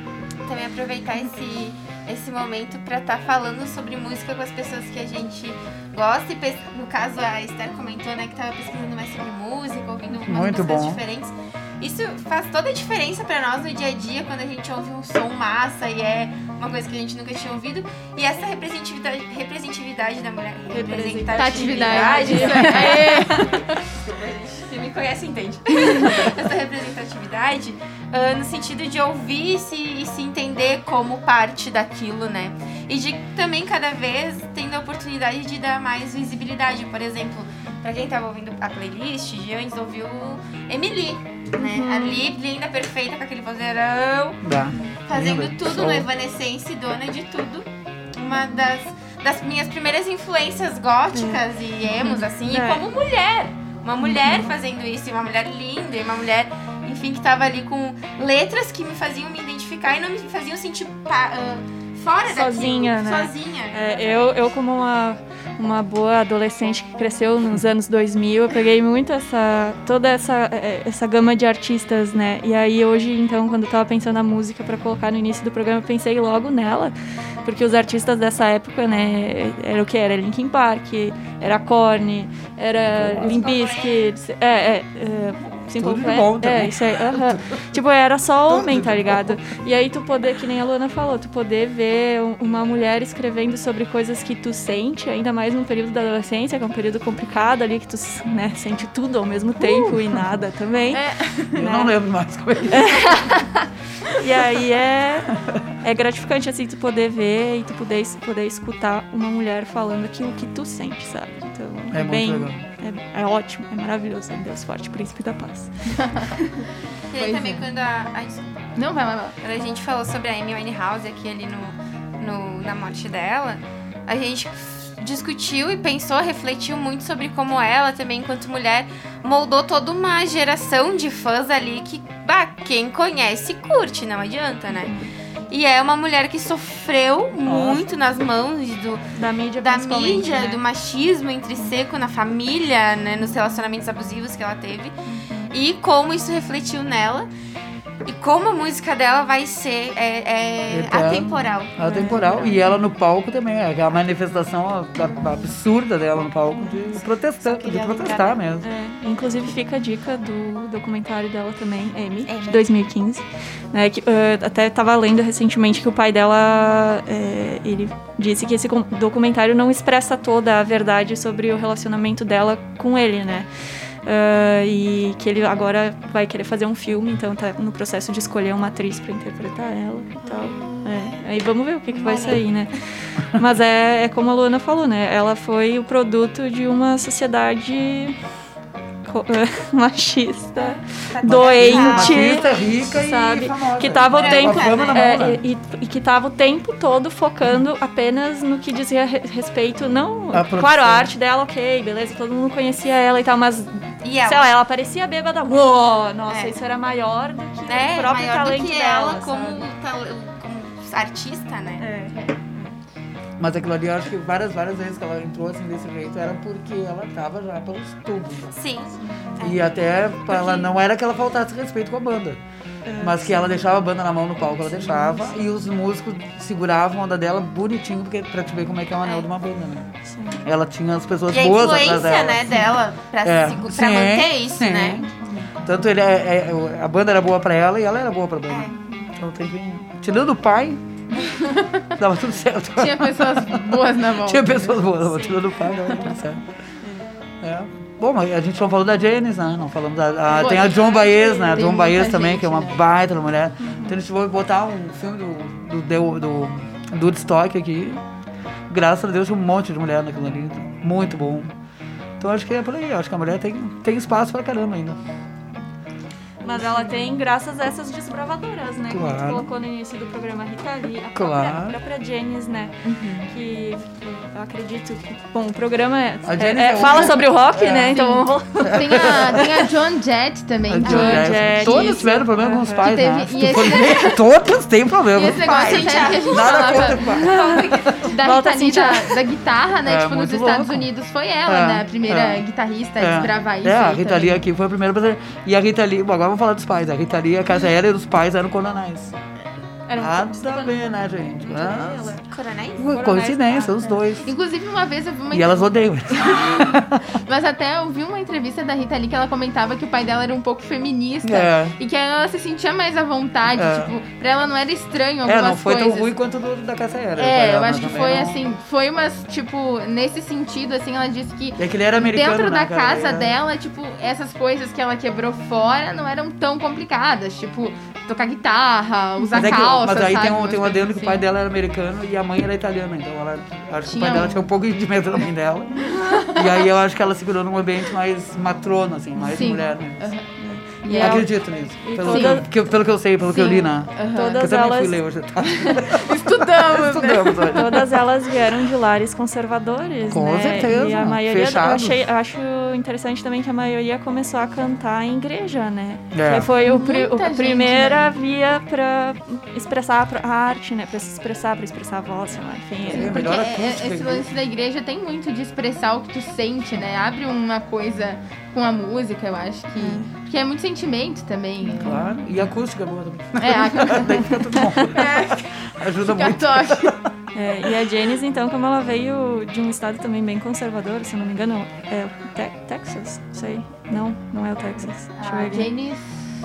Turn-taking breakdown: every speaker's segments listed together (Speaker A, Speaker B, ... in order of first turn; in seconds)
Speaker A: 0.5-44.4, 45.1-64.3, 83.2-84.1, 117.1-118.6, 119.4-134.9, 135.5-139.0, 139.6-145.0, 145.5-147.3, 148.1-152.5, 156.9-158.4, 162.3-162.6, 180.2-181.2, 181.9-182.4, 191.1-192.7, 194.1-195.0, 204.0-204.5, 206.3-206.6, 207.7-211.9, 218.6-219.8, 220.3-220.7, 231.3-235.1, 238.5-238.7, 285.4-288.1, 302.3-303.0
Speaker B: 10.2-11.0, 44.4-46.1, 82.9-83.5, 85.8-87.8, 88.5-89.5, 99.8-100.2, 101.5-103.2, 111.9-112.6, 137.4-137.9, 150.7-158.7, 191.2-195.4, 200.3-201.1, 213.4-218.6, 219.4-222.4, 223.0-229.9, 230.4-232.7, 233.2-235.1, 235.6-240.8, 242.0-246.4, 247.4-258.0, 258.7-261.5, 262.2-265.0, 268.9-269.5, 271.1-271.8, 276.3-278.0, 278.6-279.5, 280.7-287.9, 289.8-290.9, 291.5-292.4, 293.0-299.2, 300.0-302.2, 302.8-304.3, 305.3-307.0, 311.2-311.8, 313.5-313.9, 315.2-318.4, 321.6-323.4, 329.3-340.1, 341.0-348.0, 350.1-352.1, 356.1-356.5, 362.8-364.3, 371.8-377.0
Speaker C: 20.7-23.5, 41.6-42.3, 51.1-51.4, 52.0-52.9, 54.0-54.5, 62.2-101.0, 101.6-101.9, 102.7-103.7, 104.2-116.7, 134.7-135.1, 139.2-140.6, 145.1-145.5, 151.8-152.7, 158.6-173.5, 174.0-188.2, 189.0-209.7, 211.8-212.8, 219.0-219.4, 222.9-223.7, 224.6-225.4, 230.1-230.4, 245.0-246.2, 246.8-247.1, 253.6-254.0, 266.4-279.5, 280.8-282.9, 287.2-287.6, 288.2-289.2, 299.9-302.3, 302.9-304.2, 329.2-329.5, 339.2-339.5, 340.4-342.5, 344.1-345.0, 347.5-363.2, 369.8-370.1, 371.7-372.2, 377.3-385.7
Speaker D: 21.4-23.6, 100.9-101.5, 116.0-116.3, 117.2-117.6, 118.8-119.3, 242.8-244.8, 250.3-252.8, 272.9-273.3, 277.9-282.1, 282.8-284.2, 285.1-287.0, 288.1-294.4, 304.2-305.8, 307.3-316.1, 317.2-331.2, 333.9-334.4, 336.1-336.3, 339.3-340.3, 340.8-341.3, 342.1-342.4, 343.3-344.4, 345.7-347.5, 356.6-358.1, 362.9-372.0, 373.4-374.2, 374.9-375.4, 376.0-377.0, 385.2-386.2